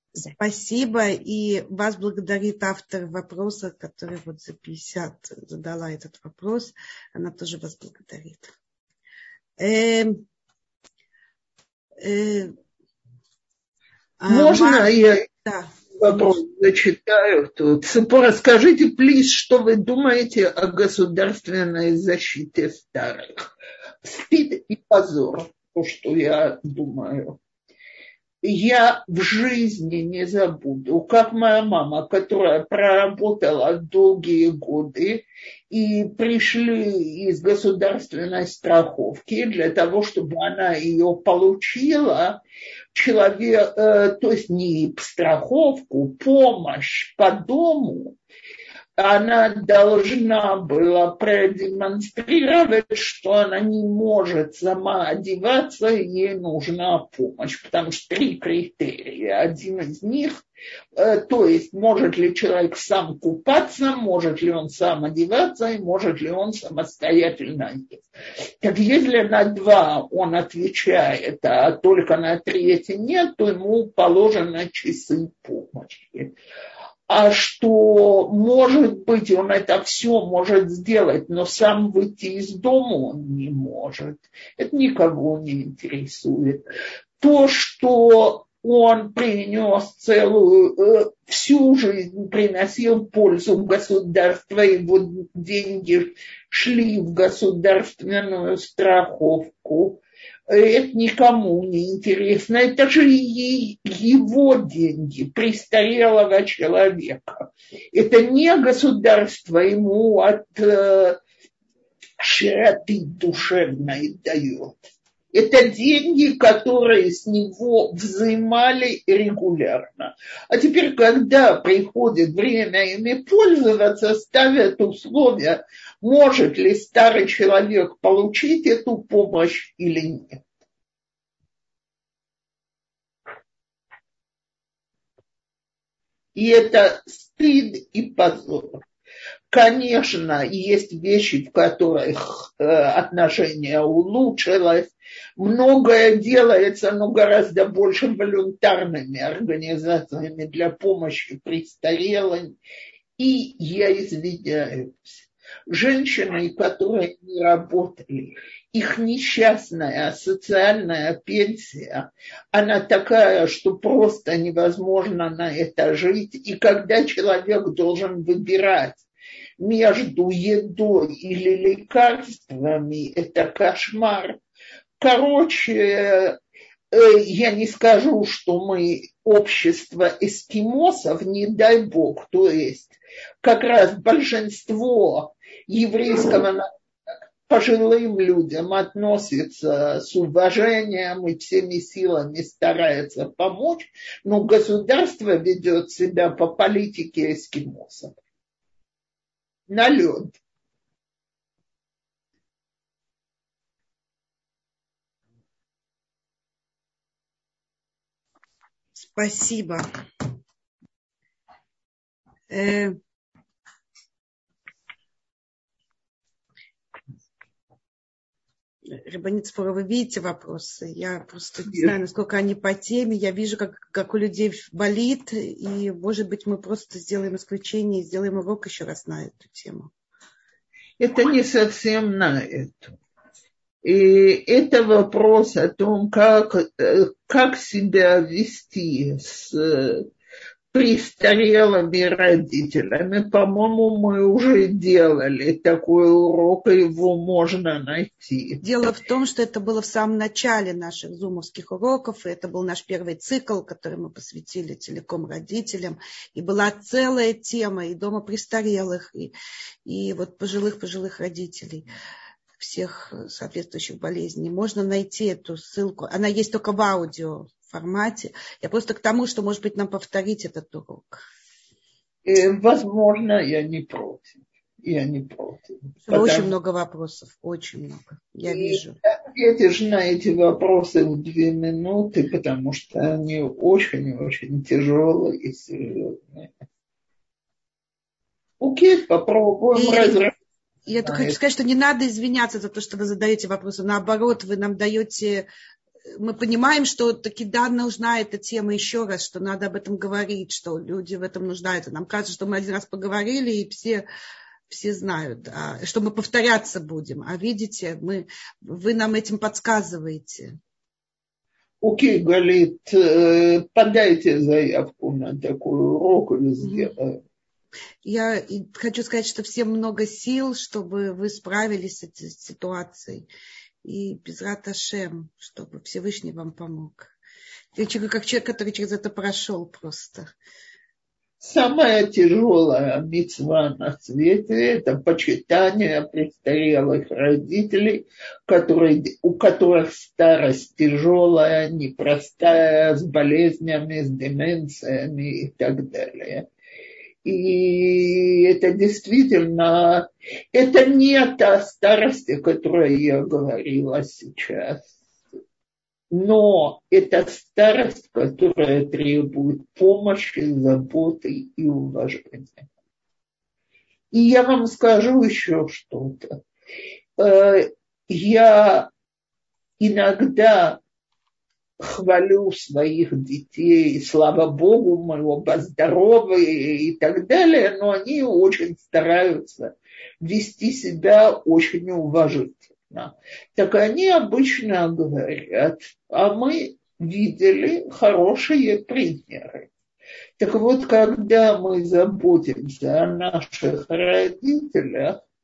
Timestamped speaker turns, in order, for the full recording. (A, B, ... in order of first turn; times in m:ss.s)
0:00.2-0:08.5 A
0:09.6-0:10.2 A
0:12.0-0:12.5 A
0:14.2-0:14.9 A
0:14.3-0:15.2 B
0:15.4-0:15.8 A
0:16.0-0:23.5 B
0:24.0-0:27.4 B
0:28.4-0:42.4 B
0:42.9-0:48.2 B
0:49.0-1:00.4 B
1:01.0-1:08.1 B
1:08.6-1:16.3 B
1:17.1-1:26.6 B
1:27.2-1:51.2 B
1:52.2-2:10.4 B
2:16.4-2:18.8 B
2:19.5-2:32.6 B
2:33.2-2:49.0 B
2:49.6-2:54.4 B
2:55.0-2:56.4 B
2:56.9-3:06.7 B
3:07.5-3:18.2 B
3:19.7-3:20.4 B
3:29.0-3:29.9 A
3:32.5-3:33.0 A
3:38.9-3:49.9 A
3:41.7-3:41.9 B
3:51.0-3:53.0 B
3:53.8-4:00.1 B
4:00.7-4:08.6 B
4:08.6-4:19.3 A
4:19.9-4:21.9 A
4:22.6-4:31.2 A
4:32.3-4:36.5 B
4:36.1-4:39.0 A
4:38.5-4:46.5 B
4:48.6-4:50.3 B
4:49.7-4:50.2 A
4:50.9-4:55.5 A
4:51.0-4:51.4 B
4:56.1-5:04.1 A
5:04.7-5:10.6 A
5:11.8-5:17.2 B
5:16.6-5:16.9 A
5:18.0-5:23.3 A
5:23.8-5:27.1 A
5:27.7-5:30.3 A
5:31.4-5:46.5 B
5:47.2-5:54.9 B
5:56.1-6:02.7 B
6:04.1-6:06.4 B
6:07.2-6:08.9 B
6:09.8-6:10.8 B
6:11.8-6:29.7 B
6:30.4-6:35.2 B